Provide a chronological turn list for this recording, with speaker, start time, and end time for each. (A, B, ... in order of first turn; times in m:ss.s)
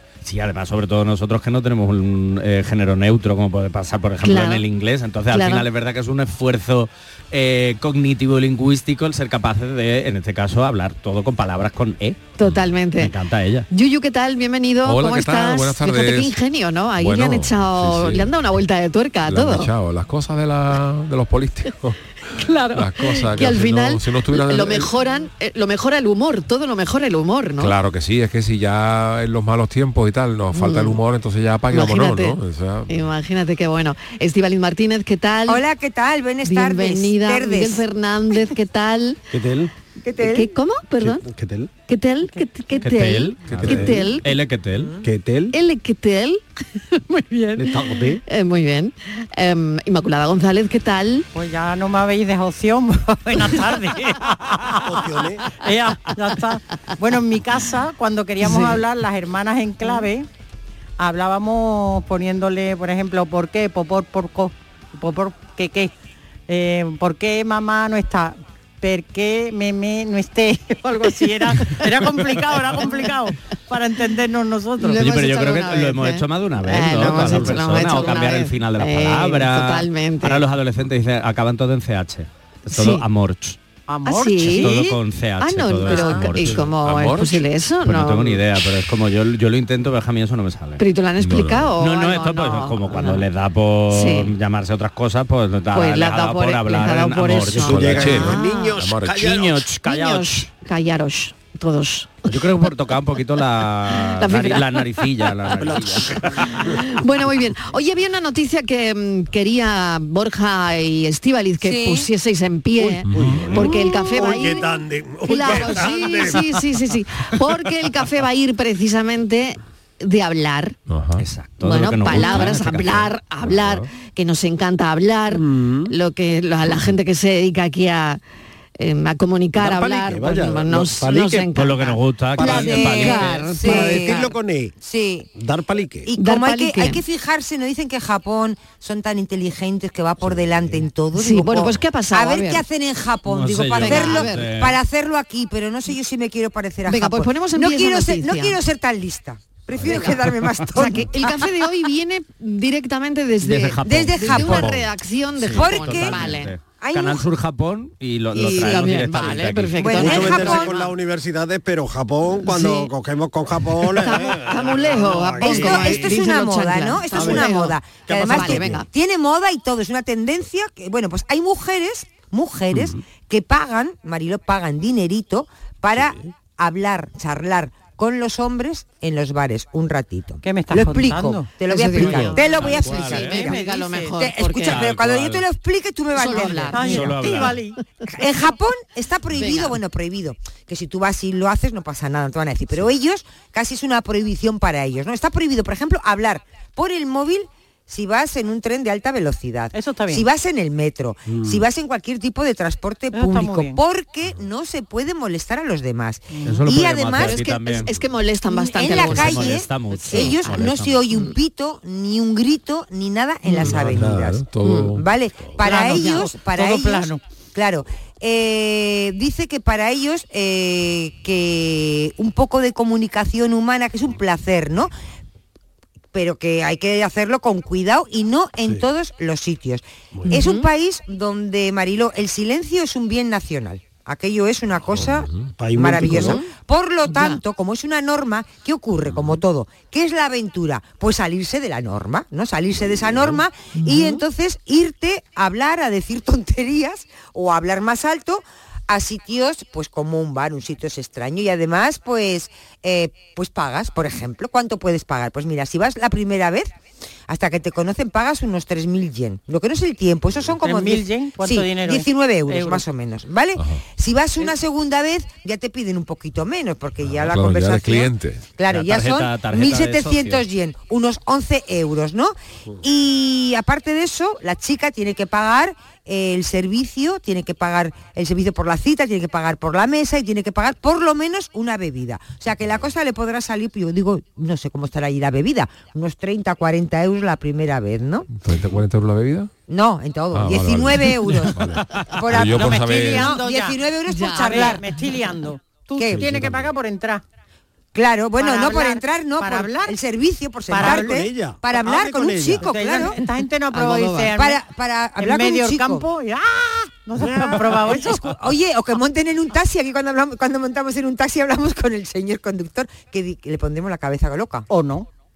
0:00.2-0:13.7 A
0:04.2-0:04.6 B
0:05.3-0:05.7 B
0:12.4-0:13.1 B
0:13.7-0:19.7 B
0:14.8-0:16.4 C
0:17.0-0:18.3 C
0:19.2-0:22.0 C
0:22.4-0:27.7 B
0:22.7-0:24.9 C
0:27.6-0:32.9 C
0:30.5-0:31.0 B
0:31.7-0:32.4 B
0:32.9-0:35.6 B
0:35.5-0:37.8 D
0:36.4-0:39.2 B
0:39.3-0:39.7 E
0:40.0-0:40.5 D
0:40.2-0:41.2 B
0:41.0-0:41.7 E
0:41.9-0:44.2 B
0:42.8-0:45.0 A
0:43.6-0:44.0 E
0:45.0-0:45.5 E
0:45.5-0:46.4 B
0:47.1-0:51.3 B
0:47.6-0:48.2 E
0:51.3-1:00.3 F
0:54.8-0:55.4 E
0:58.4-0:58.8 B
1:01.0-1:05.9 F
1:06.5-1:15.0 F
1:14.8-1:20.4 B
1:14.9-1:23.6 A
1:22.7-1:23.0 B
1:23.9-1:24.7 F
1:24.0-1:28.4 B
1:24.4-1:26.7 A
1:25.9-1:26.2 F
1:26.4-1:27.4 C
1:27.8-1:30.8 A
1:30.8-1:33.2 B
1:31.2-1:31.7 C
1:31.8-1:38.2 A
1:33.9-1:34.3 B
1:35.7-1:38.8 B
1:37.5-1:39.6 E
1:37.5-1:39.3 C
1:39.0-1:40.5 A
1:39.8-1:42.3 B
1:42.3-1:46.6 A
1:44.2-1:44.9 B
1:45.6-1:46.6 E
1:46.4-1:54.7 B
1:51.6-1:52.1 D
1:52.8-1:56.6 E
1:53.1-1:53.6 C
1:55.2-2:00.8 B
2:00.9-2:01.2 C
2:01.2-2:03.8 A
2:01.6-2:08.2 B
2:05.3-2:05.9 E
2:08.8-2:11.9 B
2:09.6-2:14.8 E
2:11.5-2:13.5 A
2:12.4-2:15.3 D
2:12.4-2:14.3 B
2:15.3-2:16.1 E
2:16.1-2:31.3 D
2:16.2-2:17.0 B
2:20.2-2:20.8 E
2:21.2-2:22.6 B
2:23.3-2:24.8 A
2:23.7-2:24.5 B
2:26.9-2:28.6 B
2:30.7-2:36.5 B
2:33.4-2:40.1 A
2:33.8-2:34.8 D
2:35.5-2:37.2 D
2:38.3-2:40.9 B
2:38.4-2:38.9 E
2:39.8-2:40.8 D
2:40.0-2:46.2 E
2:42.4-2:42.9 B
2:43.9-2:48.9 B
2:45.4-3:03.6 D
2:47.1-2:47.5 E
2:48.1-2:48.8 E
2:52.7-2:53.0 E
2:56.0-2:56.3 E
3:00.4-3:04.2 F
3:01.7-3:04.8 B
3:02.0-3:03.5 A
3:04.2-3:07.0 D
3:04.6-3:05.4 A
3:06.2-3:07.2 B
3:06.7-3:07.8 F
3:06.8-3:07.6 A
3:08.1-3:27.4 D
3:09.3-3:09.8 B
3:19.7-3:20.3 F
3:21.2-3:21.6 E
3:23.1-3:23.8 F
3:26.3-3:26.6 F
3:26.4-3:27.9 A
3:27.2-3:29.6 B
3:28.5-3:44.9 D
3:28.8-3:31.3 A
3:33.6-3:35.1 C
3:33.6-3:34.0 E
3:35.6-3:37.2 F
3:46.1-4:16.7 D
3:50.2-3:50.7 B
3:55.0-3:56.4 E
3:56.0-3:56.5 B
3:57.1-3:57.4 B
3:59.1-3:59.4 E
4:03.8-4:04.2 B
4:17.3-4:48.3 D
4:20.6-4:22.8 F
4:27.1-4:28.4 C
4:28.7-4:30.4 A
4:48.3-4:49.5 C
4:49.7-4:51.6 D
4:50.3-4:53.4 C
4:52.1-4:54.9 D
4:52.4-4:57.2 F
4:54.1-4:54.8 B
4:56.0-4:56.3 D
4:56.2-4:56.6 E
4:57.9-5:03.2 D
4:58.4-5:00.0 F
5:00.7-5:01.2 F
5:00.8-5:02.7 E
5:02.6-5:04.6 F
5:03.7-5:04.3 B
5:04.3-5:06.0 D
5:05.2-5:08.3 F
5:07.2-5:14.7 D
5:14.7-5:15.1 F